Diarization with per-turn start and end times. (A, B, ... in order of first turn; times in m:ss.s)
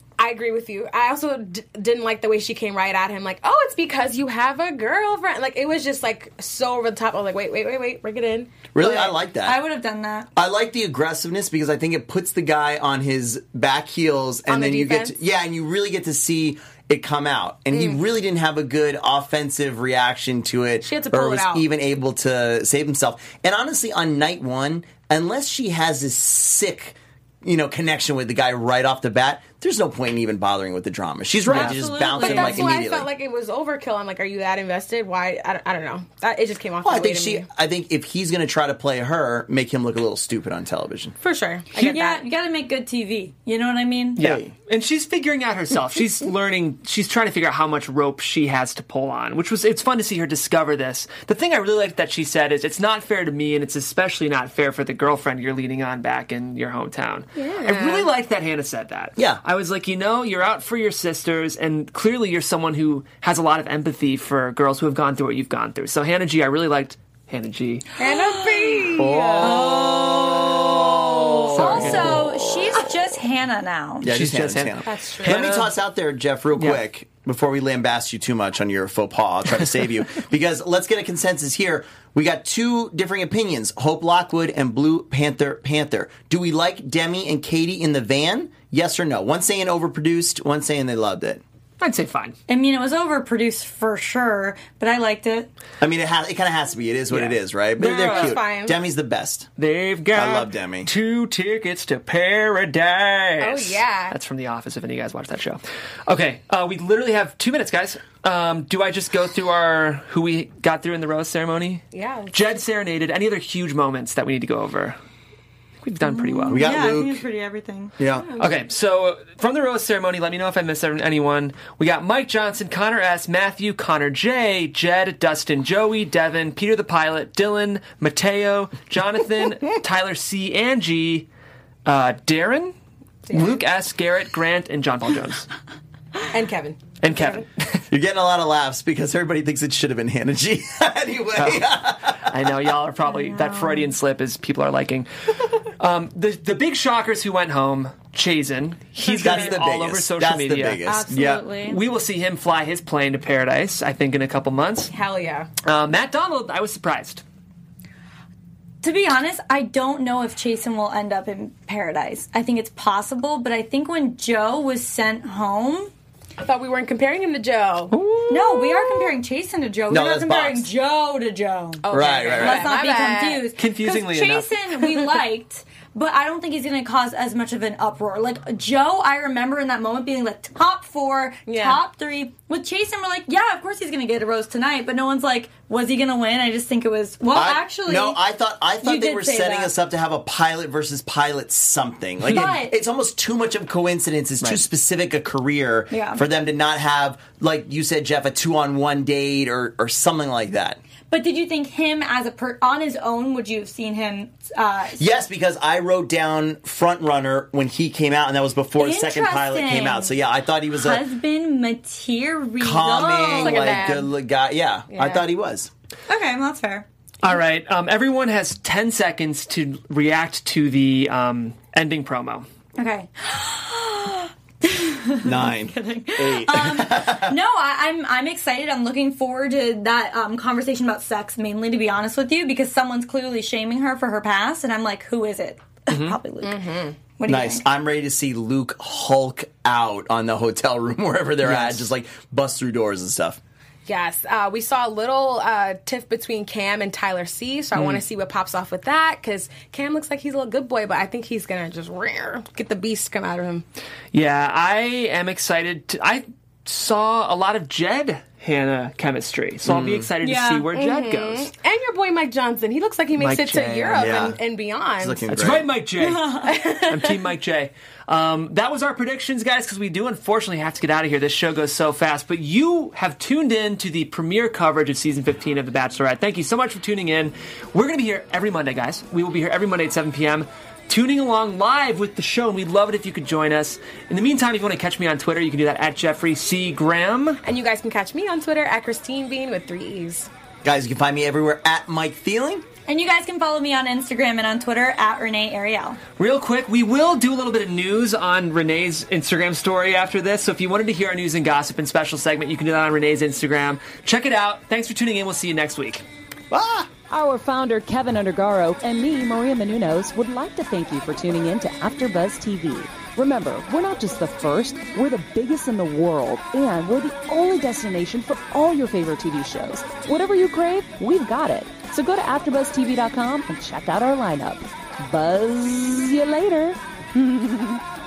0:00.2-0:08.7 A
0:08.7-0:09.6 B
0:08.8-0:10.3 C
0:10.4-0:33.1 B
0:14.5-0:15.2 A
0:17.7-0:18.0 A
0:20.8-0:21.6 A
0:31.4-0:32.8 C
0:31.6-0:37.5 A
0:36.8-0:41.2 B
0:41.2-0:42.2 A
0:41.7-0:42.0 D
0:41.8-0:44.3 C
0:44.2-1:07.8 D
0:44.2-0:44.5 B
0:57.4-0:58.1 A
1:08.0-1:08.8 C
1:08.0-1:09.7 A
1:08.9-1:13.2 B
1:09.4-1:14.1 C
1:11.5-1:12.2 D
1:14.0-1:31.4 B
1:14.0-1:15.7 D
1:14.8-1:15.6 A
1:16.6-1:16.8 D
1:31.8-1:32.4 D
1:32.5-1:35.5 C
1:35.8-1:39.5 B
1:37.1-1:38.4 D
1:37.9-1:38.8 A
1:39.6-1:55.0 D
1:40.1-1:40.9 B
1:43.4-1:44.1 A
1:51.9-1:52.6 A
1:55.8-1:56.7 D
1:56.0-1:57.9 C
1:56.5-1:57.2 B
1:58.0-1:58.2 B
1:58.2-1:58.6 A
1:58.4-2:11.3 D
2:11.8-2:12.7 D
2:13.2-2:13.6 A
2:13.3-2:15.5 D
2:16.3-2:17.4 A
2:17.0-2:17.8 D
2:17.9-2:22.4 B
2:21.4-2:25.1 D
2:23.0-2:23.9 C
2:25.8-2:30.8 D
2:29.1-2:29.5 C
2:29.1-2:31.5 B
2:30.8-2:31.8 C
2:31.6-2:34.9 D
2:34.9-2:35.5 A
2:35.6-2:37.2 D
2:38.8-2:45.9 C
2:46.4-2:47.9 A
2:47.9-2:49.0 D
2:48.3-3:08.2 C
2:49.9-2:50.7 B
2:51.8-2:53.5 A
2:51.9-2:52.7 B
2:53.6-2:54.6 D
3:01.5-3:01.8 A
3:07.3-3:20.8 B
3:08.8-3:09.7 C
3:12.3-3:12.8 C
3:15.9-3:16.2 C
3:21.1-3:25.1 C
3:25.0-3:31.0 B
3:28.8-3:30.2 C
3:30.7-3:33.9 C
3:32.6-3:35.7 B
3:33.3-3:34.1 A
3:34.9-3:35.2 A
3:36.1-3:36.8 C
3:37.2-3:42.4 D
3:42.8-3:56.6 C
3:45.2-3:47.4 B
3:55.9-3:56.2 D
3:56.4-3:57.0 A
3:57.2-3:57.6 C
3:57.3-4:03.4 B
4:01.4-4:01.9 D
4:03.8-4:13.6 A
4:07.8-4:08.0 D
4:14.1-4:21.5 D
4:19.6-4:20.1 B
4:20.2-4:20.7 C
4:20.7-4:25.3 A
4:23.2-4:24.2 D
4:23.9-4:24.4 B
4:25.0-4:25.7 B
4:25.3-4:47.4 D
4:26.0-4:26.6 C
4:26.4-4:27.1 A
4:47.4-4:50.3 A
4:50.6-4:52.6 B
4:52.8-4:56.0 C
4:56.2-5:06.0 D
5:06.5-5:06.9 B
5:07.1-5:27.8 E